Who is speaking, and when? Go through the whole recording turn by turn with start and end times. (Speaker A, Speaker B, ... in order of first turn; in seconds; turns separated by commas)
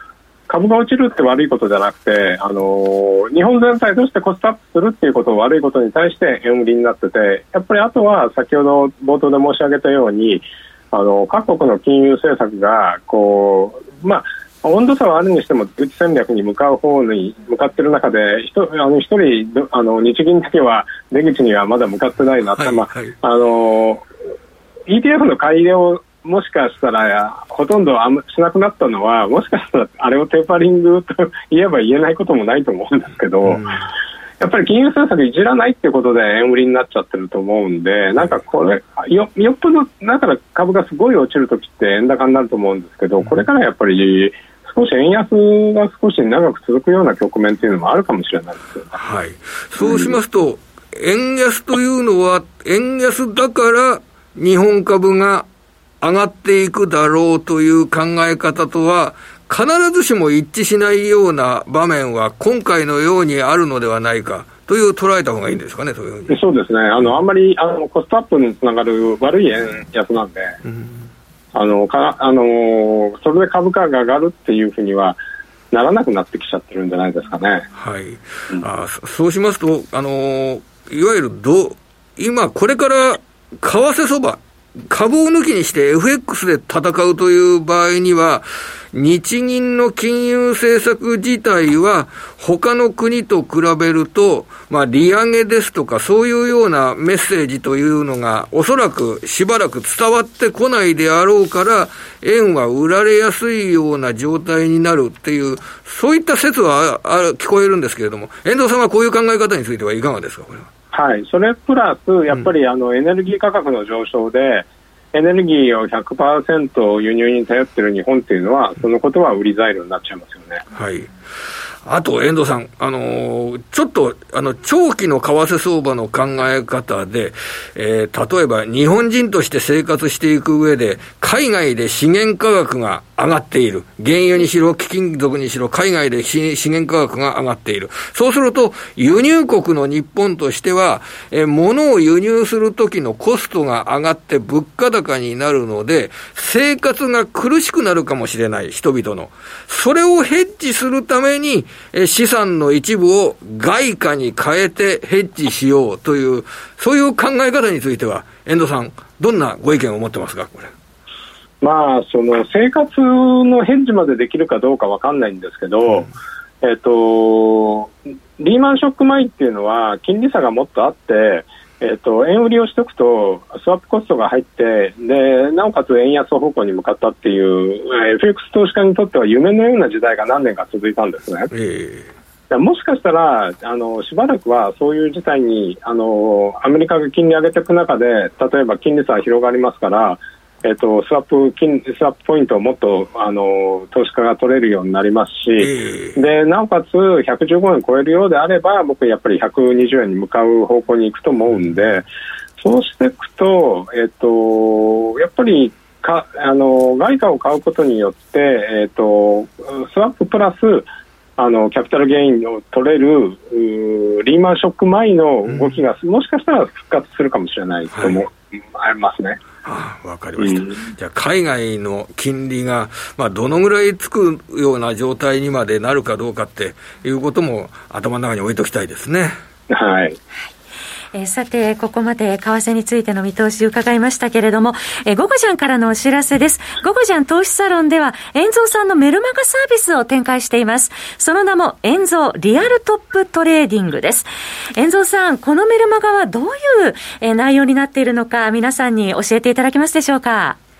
Speaker A: 0.5-24.0, Speaker B: 22.6-23.1, Speaker A: 24.9-33.7, Speaker B: 33.5-33.8, Speaker A: 34.4-49.0, Speaker B: 49.0-55.5, Speaker A: 49.8-50.1, Speaker B: 56.0-66.4, Speaker A: 66.3-70.6, Speaker B: 70.6-71.0, Speaker A: 71.5-75.2, Speaker A: 75.7-77.7, Speaker B: 77.7-110.7, Speaker A: 110.9-120.6, Speaker B: 120.7-121.1, Speaker B: 121.8-160.7, Speaker A: 161.6-166.1, Speaker A: 166.6-181.5, Speaker B: 181.5-182.1, Speaker A: 182.5-202.1, Speaker B: 195.6-196.2, Speaker A: 202.6-210.9, Speaker A: 211.4-219.4, Speaker B: 215.5-215.8, Speaker B: 217.9-218.2, Speaker B: 219.6-229.4, Speaker A: 220.4-220.8, Speaker A: 229.7-230.2, Speaker C: 231.1-250.6